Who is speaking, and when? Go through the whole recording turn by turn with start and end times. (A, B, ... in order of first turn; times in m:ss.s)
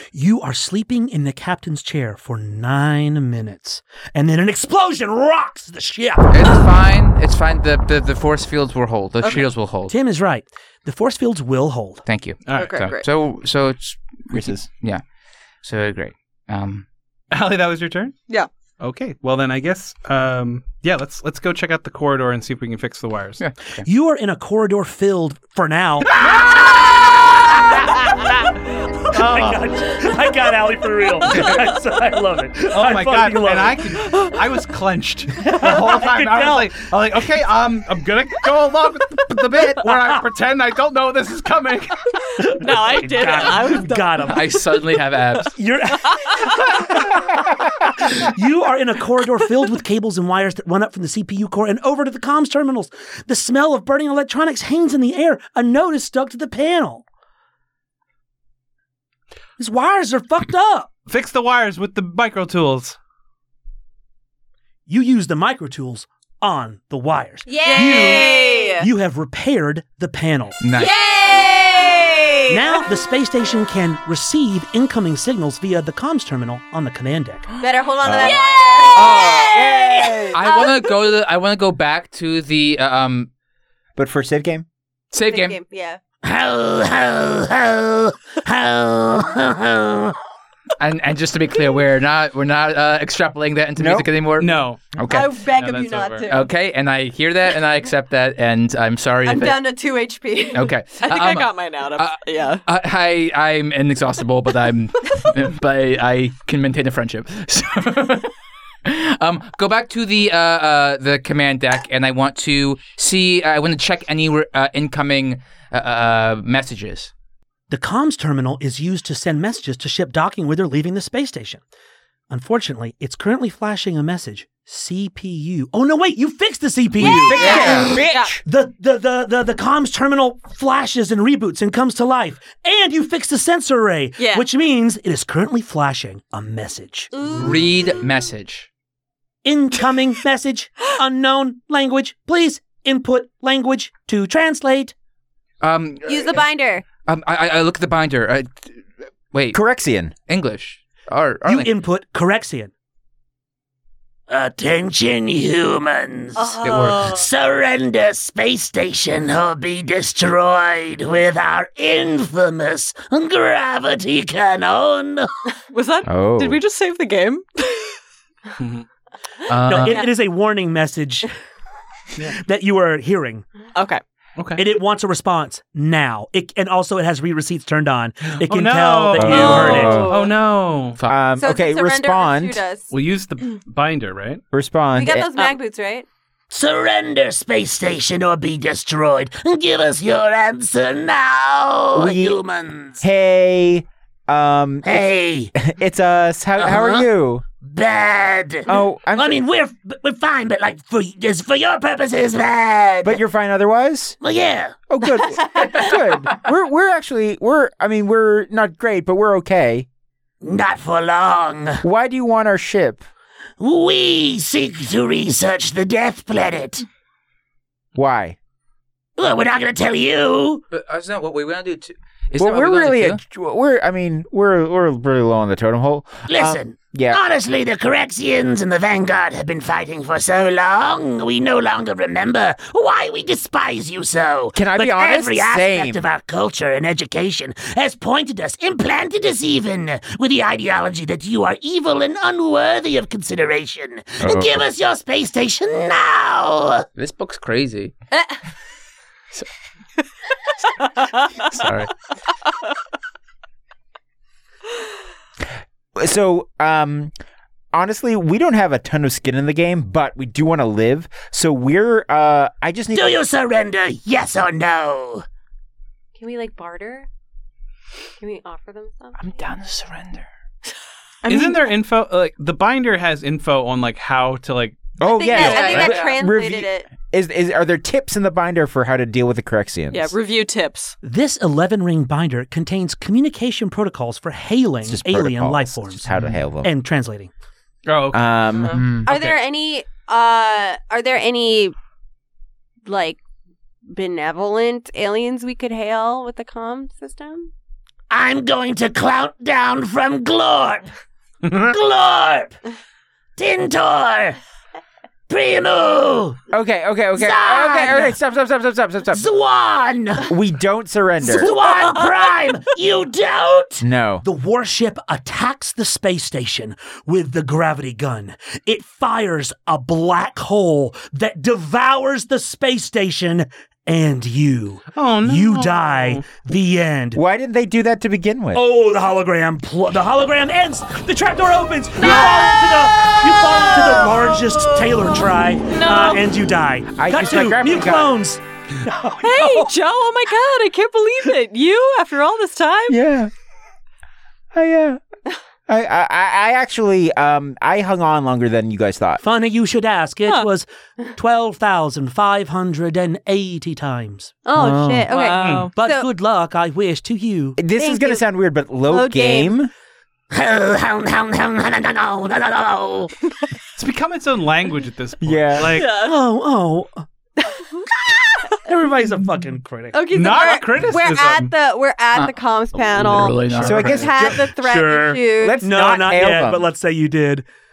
0:00.1-0:06.3 A
0:06.3-0:09.9 B
0:09.2-0:09.5 C
0:09.9-0:12.0 A
0:12.0-0:15.0 B
0:12.4-0:12.9 D
0:12.5-0:13.0 C
0:14.3-0:14.7 E
0:15.6-0:16.8 B
0:17.3-0:18.2 D
0:18.8-0:23.4 D
0:23.4-0:23.8 B
0:23.8-0:26.1 A
0:29.1-0:34.0 A
0:29.1-0:29.6 D
0:32.7-0:42.1 D
0:35.4-0:36.9 A
0:39.8-0:40.2 A
0:42.4-0:44.6 A
0:42.5-0:44.4 C
0:44.2-0:45.5 B
0:45.5-0:57.0 A
0:59.6-1:00.9 A
1:01.1-1:03.0 D
1:04.9-1:10.6 A
1:07.5-1:08.8 F
1:07.6-1:08.7 C
1:10.6-1:10.9 B
1:10.7-1:12.6 F
1:12.5-1:17.4 A
1:17.6-1:19.3 F
1:18.0-1:18.4 E
1:18.2-1:18.9 C
1:18.9-1:20.2 G
1:18.9-1:19.6 B
1:19.5-1:20.4 E
1:20.3-1:23.3 B
1:20.4-1:20.9 F
1:24.0-1:24.6 E
1:25.1-1:25.6 B
1:25.2-1:26.0 F
1:26.2-1:30.2 G
1:30.8-1:35.4 B
1:33.8-1:34.1 E
1:34.4-1:36.4 D
1:35.1-1:36.4 F
1:36.2-1:39.6 B
1:39.2-1:40.7 F
1:40.5-1:48.3 B
1:41.0-1:42.6 C
1:48.8-1:57.1 B
1:57.7-2:01.6 A
2:02.3-2:07.7 A
2:07.0-2:08.4 E
2:07.0-2:07.8 F
2:07.1-2:08.0 B
2:07.4-2:08.4 C
2:08.4-2:17.1 A
2:14.2-2:14.4 C
2:17.3-2:18.7 B
2:19.4-2:24.9 A
2:25.6-2:26.4 B
2:26.0-2:26.8 F
2:27.0-2:29.6 B
2:29.5-2:30.1 E
2:30.2-2:31.7 B
2:31.4-2:32.7 A
2:34.3-2:45.3 G
2:36.4-2:37.3 C
2:36.6-2:37.1 B
2:45.7-2:48.0 C
2:46.0-2:46.6 E
2:48.6-2:48.8 D
2:49.5-2:50.0 B
2:49.6-2:51.3 A
2:52.3-2:53.4 A
2:53.7-2:54.0 C
2:54.4-2:54.6 D
2:54.6-3:00.1 A
2:58.4-3:01.0 D
2:59.2-3:00.2 E
2:59.2-3:00.3 F
3:01.1-3:02.6 E
3:01.4-3:02.9 F
3:02.9-3:04.4 D
3:04.5-3:05.3 E
3:04.9-3:06.0 F
3:06.5-3:13.0 G
3:11.9-3:12.4 E
3:13.0-3:15.0 E
3:14.8-3:15.5 G
3:15.5-3:17.4 E
3:16.6-3:17.1 G
3:17.6-3:23.2 G
3:18.6-3:19.4 E
3:23.0-3:24.2 E
3:24.2-3:24.8 G
3:24.9-3:29.8 E
3:25.6-3:25.9 B
3:30.4-3:31.8 G
3:31.8-3:33.0 E
3:33.6-3:36.8 G
3:37.9-3:38.4 E
3:39.2-3:40.6 G
3:40.7-3:43.2 B
3:42.4-3:47.2 E
3:46.3-4:06.8 G
3:54.5-3:56.0 E
4:04.2-4:04.6 E
4:07.0-4:07.9 B
4:11.4-4:11.9 B
4:16.0-4:17.1 E
4:17.7-4:23.2 E
4:22.9-4:25.2 G
4:26.2-4:27.1 F
4:28.2-4:29.2 F
4:29.2-4:30.2 B
4:31.2-4:31.6 C
4:31.3-4:34.8 D
4:35.0-4:40.1 E
4:35.0-4:36.9 F
4:35.3-4:36.2 C
4:35.7-4:36.0 B
4:39.9-4:40.9 C
4:41.0-4:46.1 A
4:44.8-4:46.7 E
4:46.1-4:46.4 B
4:46.6-4:47.3 A
4:47.8-4:49.4 D
4:48.1-4:48.8 E
4:48.7-4:49.1 B
4:49.0-4:51.7 F
4:52.8-4:53.2 F
4:53.9-4:57.5 F
4:58.1-5:00.9 G
5:01.6-5:02.6 G
5:03.4-5:04.4 G
5:05.3-5:06.4 G
5:06.5-5:09.3 E
5:07.1-5:08.2 G
5:09.1-5:10.3 G
5:10.3-5:11.5 E
5:11.2-5:13.8 G
5:11.2-5:12.3 C
5:11.4-5:12.0 A
5:13.8-5:14.2 E
5:14.2-5:27.2 A
5:24.9-5:26.2 D
5:27.1-5:28.6 E
5:28.5-5:39.7 A
5:32.0-5:35.1 C
5:35.7-5:36.2 C
5:37.0-5:38.1 E
5:39.2-5:43.0 C
5:42.9-5:43.3 E
5:44.5-5:45.0 E
5:45.7-5:49.2 E
5:49.2-5:55.2 A
5:54.4-5:56.1 F
5:55.1-5:55.7 C
5:55.4-5:55.7 D
5:55.7-5:57.6 A
5:57.6-5:59.7 E
5:57.8-5:58.2 F
5:58.9-5:59.6 F
6:00.3-6:03.1 G
6:03.8-6:06.0 D
6:05.2-6:05.8 E
6:05.7-6:06.2 C
6:05.9-6:07.0 A
6:08.5-6:10.0 A
6:09.9-6:15.6 F
6:10.1-6:11.5 D
6:12.1-6:14.1 B
6:13.2-6:13.9 D
6:13.6-6:14.3 E
6:14.2-6:17.4 A
6:15.4-6:16.7 E